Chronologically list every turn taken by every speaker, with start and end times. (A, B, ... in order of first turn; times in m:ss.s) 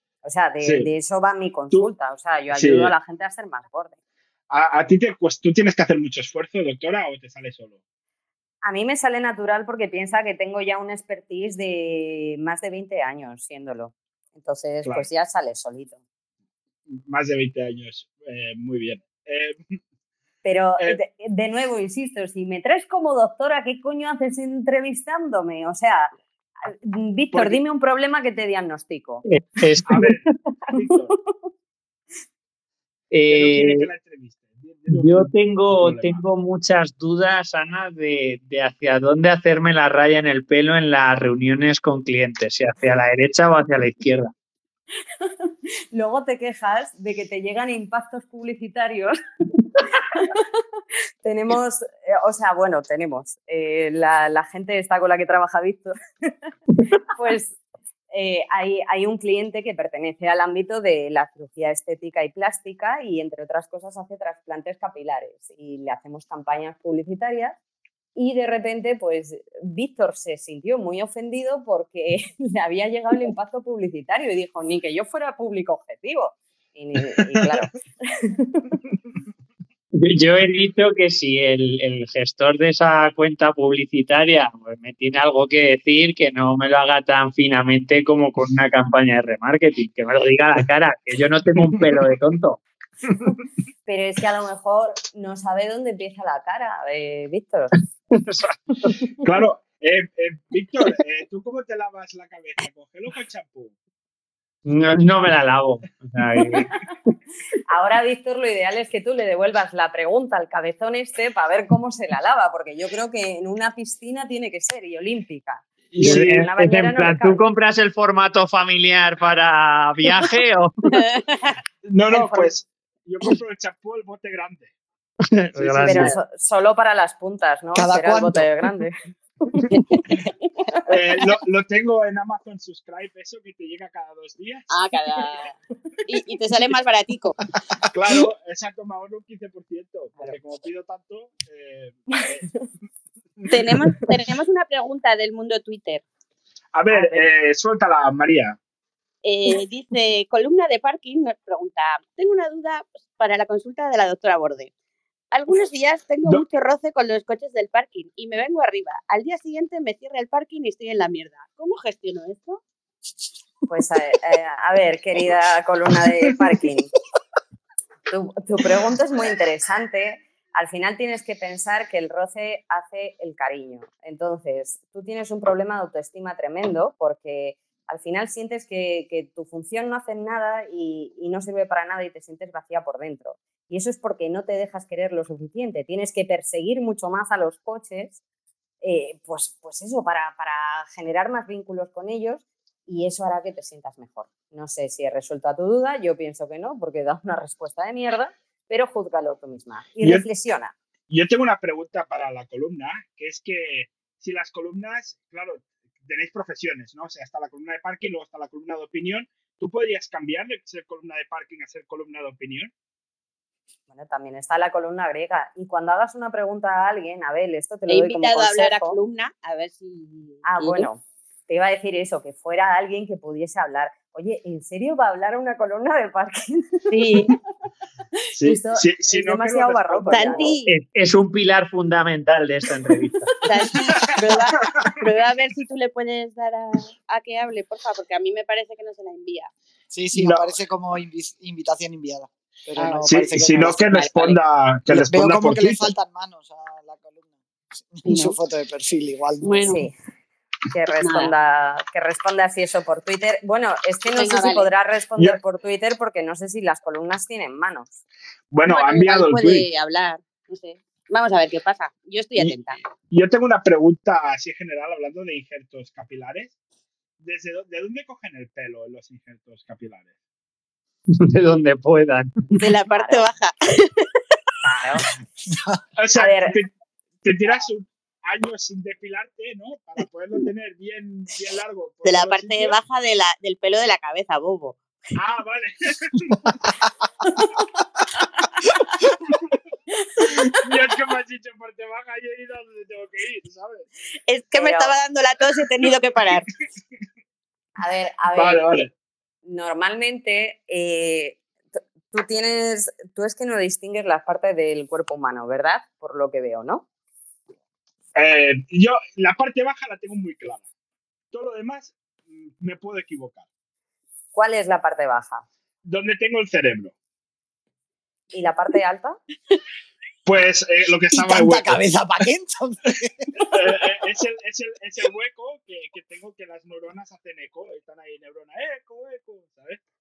0:00.2-0:04.0 A
0:00.6-0:00.9 B
0:02.5-0:02.9 B
0:04.5-0:07.8 B
0:08.6-0:16.0 A
0:16.9-0:19.6 B
0:20.4-0:26.1 A
0:26.6-0:29.2 A
0:27.3-0:27.6 B
0:29.2-0:30.2 C
0:29.8-0:31.1 B
0:33.1-0:33.9 C
0:33.3-0:36.2 B
0:34.9-0:44.3 C
0:45.9-0:49.1 A
0:49.8-0:50.6 A
0:51.2-0:56.3 A
0:56.8-0:57.0 C
0:57.1-0:57.6 A
0:58.1-1:07.6 A
1:08.1-1:18.8 A
1:20.0-1:32.6 C
1:31.7-1:32.0 B
1:33.8-1:37.7 A
1:38.1-1:39.0 C
1:39.2-1:43.7 B
1:44.7-1:46.7 C
1:47.7-1:57.4 A
1:55.9-1:56.4 B
1:56.0-2:00.9 C
2:00.9-2:01.6 D
2:01.8-2:04.7 B
2:02.1-2:02.6 A
2:05.3-2:06.1 C
2:05.6-2:06.1 B
2:05.8-2:09.0 A
2:07.8-2:08.5 E
2:10.8-2:14.7 B
2:14.7-2:15.5 D
2:16.1-2:17.4 D
2:17.9-2:22.6 B
2:23.5-2:26.0 D
2:26.7-2:28.6 B
2:26.9-2:27.3 A
2:29.2-2:34.7 D
2:35.3-2:42.6 D
2:43.7-2:46.9 A
2:48.1-3:08.2 A
3:08.8-3:20.7 A
3:21.1-3:32.7 B
3:33.9-3:39.0 A
3:37.9-3:40.9 D
3:40.4-3:46.7 A
3:46.9-3:47.3 D
3:48.3-3:50.6 B
3:48.4-3:50.6 A
3:50.1-3:50.7 D
3:50.7-3:53.3 C
3:53.4-3:59.5 D
3:59.9-4:03.8 E
4:00.2-4:00.5 B
4:02.8-4:04.4 D
4:03.0-4:05.9 B
4:04.9-4:07.3 E
4:07.9-4:09.8 E
4:08.0-4:08.4 D
4:09.4-4:09.8 D
4:09.7-4:09.9 A
4:10.7-4:18.0 A
4:11.0-4:11.3 D
4:14.1-4:14.7 D
4:18.5-4:19.6 B
4:18.7-4:22.8 D
4:23.1-4:26.5 B
4:27.2-4:30.1 B
4:31.2-4:32.3 C
4:32.6-4:34.1 D
4:32.9-4:33.3 A
4:34.6-4:35.0 A
4:35.5-4:35.8 E
4:36.0-4:36.7 B
4:36.1-4:36.6 A
4:37.2-4:42.8 B
4:42.0-4:44.8 D
4:45.1-4:46.6 B
4:49.3-4:49.5 B
4:50.2-4:53.9 B
4:54.3-4:56.5 D
4:54.5-4:54.9 A
4:57.8-4:58.7 A
4:58.3-4:58.9 B
4:59.4-5:06.8 A
5:08.1-5:10.6 B
5:11.3-5:13.4 B
5:14.3-5:15.4 A
5:15.8-5:16.9 B
5:18.3-5:19.2 A
5:20.2-5:21.8 B
5:21.1-5:23.5 E
5:23.4-5:29.8 B